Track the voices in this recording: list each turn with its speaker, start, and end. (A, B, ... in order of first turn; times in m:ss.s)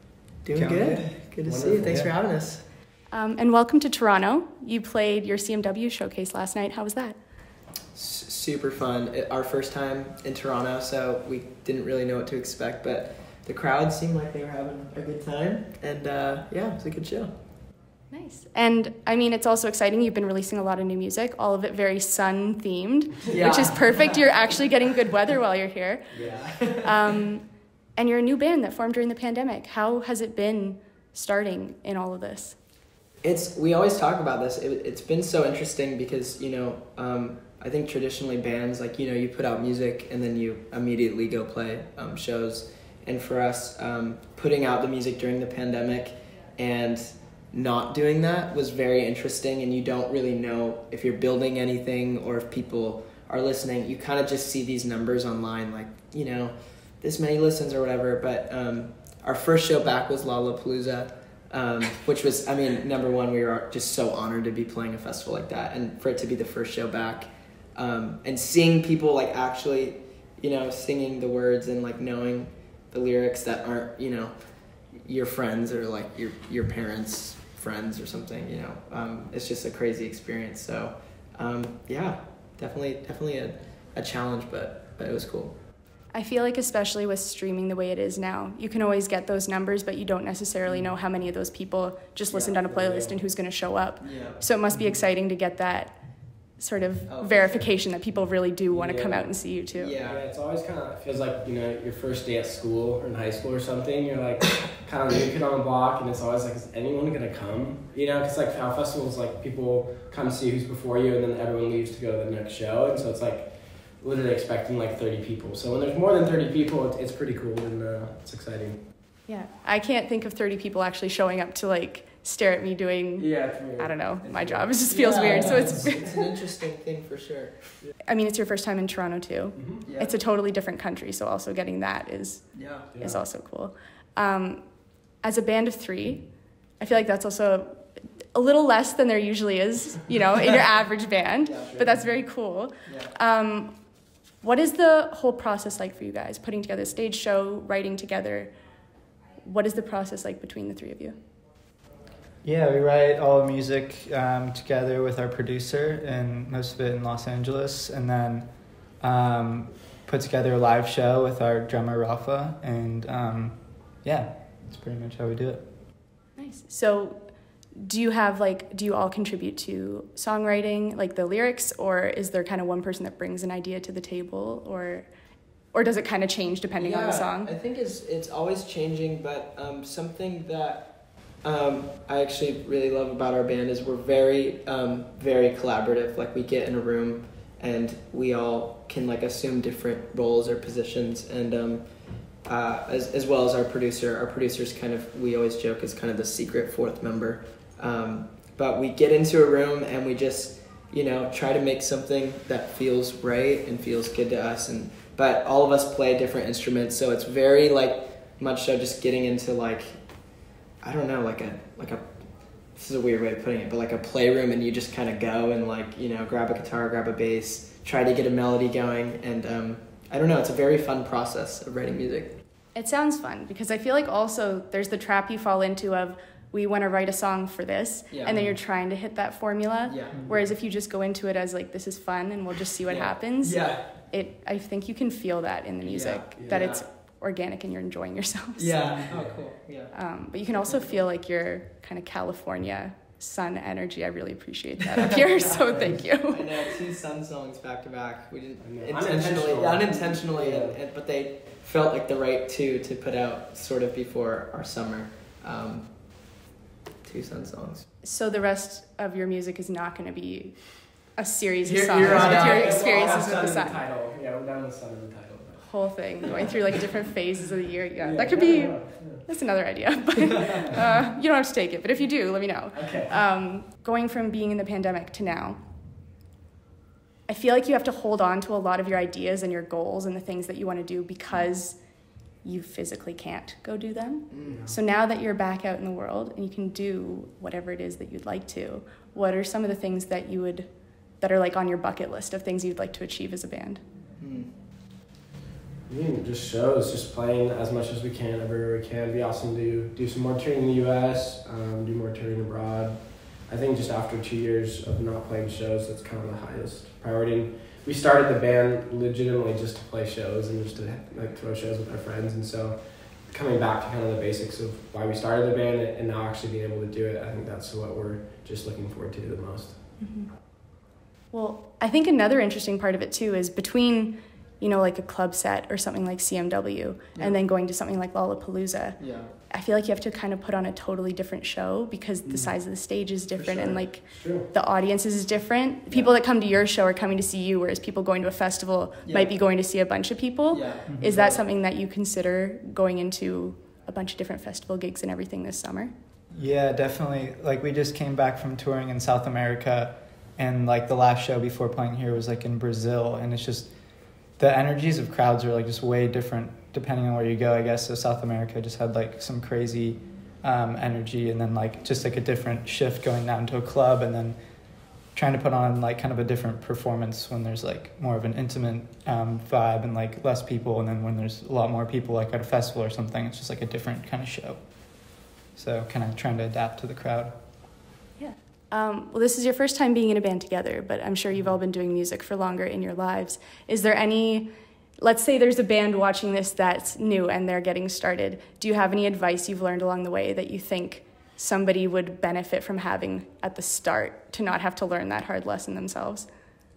0:00.4-0:02.6 A
0:00.5-0:02.1 B
0:01.5-0:02.1 C
0:03.1-0:07.2 D
0:07.9-0:17.3 A
0:18.1-0:32.6 D
0:23.3-0:24.2 A
0:26.1-0:26.8 C
0:26.1-0:27.1 A
0:33.2-1:25.6 A
1:26.1-1:40.0 D
1:30.7-1:31.0 C
1:32.3-1:33.6 C
1:34.0-1:34.4 A
1:37.1-1:37.7 A
1:38.7-1:58.8 C
1:39.7-1:40.2 A
1:59.3-2:06.3 D
2:03.2-2:06.0 C
2:04.9-2:07.8 A
2:08.0-2:23.7 D
2:09.6-2:09.8 C
2:09.8-2:10.2 A
2:12.5-2:12.9 A
2:12.9-2:13.2 C
2:21.4-2:22.0 A
2:22.8-2:23.1 A
2:24.4-2:28.5 D
2:29.4-2:31.2 D
2:32.4-2:45.6 B
2:46.4-2:55.1 D
2:55.7-2:57.5 D
2:56.8-3:42.4 A
3:42.7-3:58.8 D
3:48.1-3:48.5 A
3:49.9-3:50.2 A
3:50.3-3:50.5 C
3:52.9-3:53.9 A
3:55.8-3:56.8 A
3:56.4-3:56.7 C
3:58.6-4:01.0 A
3:58.7-3:59.0 B
3:59.1-3:59.4 C
3:59.9-4:06.7 D
4:05.4-4:16.3 A
4:08.6-4:10.8 C
4:17.0-4:17.9 A
4:18.0-4:23.8 D
4:21.6-4:23.3 A
4:21.9-4:26.5 C
4:25.6-4:35.6 D
4:28.0-4:29.3 C
4:32.7-4:33.3 C
4:37.3-4:41.9 D
4:42.4-4:53.8 D
4:44.3-4:44.6 A
4:44.4-4:44.8 C
4:54.2-4:54.5 A
4:55.9-5:19.8 C
5:20.0-5:20.4 D
5:21.3-5:45.9 D
5:29.0-5:29.3 A
5:32.2-5:32.5 C
5:33.3-5:33.9 A
5:34.1-5:34.5 C
5:39.0-5:39.4 A
5:40.5-5:41.4 A
5:46.3-6:17.4 B
6:18.2-6:36.3 D